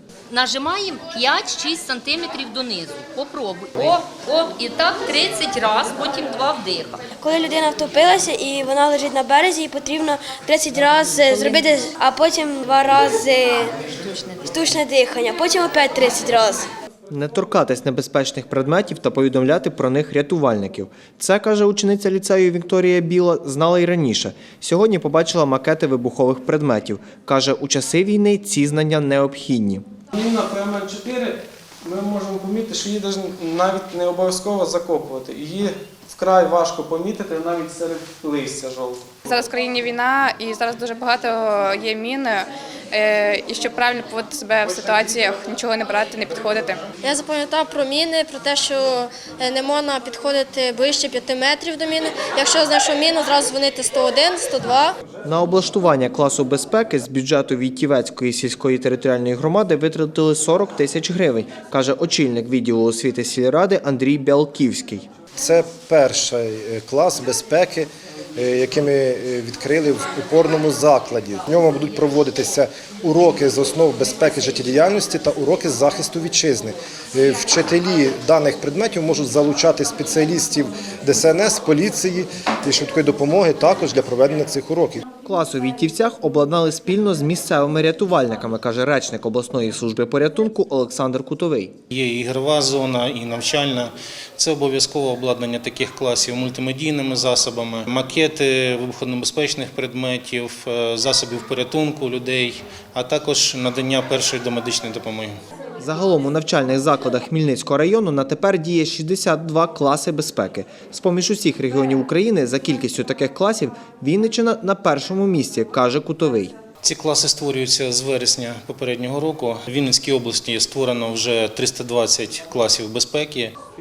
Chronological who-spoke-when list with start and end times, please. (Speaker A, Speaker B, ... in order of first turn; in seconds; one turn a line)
Speaker A: 0.3-7.0
Speaker B: 7.2-13.8
Speaker A: 14.0-14.4
Speaker B: 14.4-16.7
Speaker C: 17.1-29.8
Speaker D: 30.1-39.4
Speaker E: 39.3-46.8
Speaker F: 47.0-54.9
Speaker C: 55.2-65.0
Speaker G: 65.4-85.0
Speaker C: 85.2-91.7
Speaker H: 91.9-105.3
Speaker C: 105.8-116.5
Speaker H: 116.8-123.5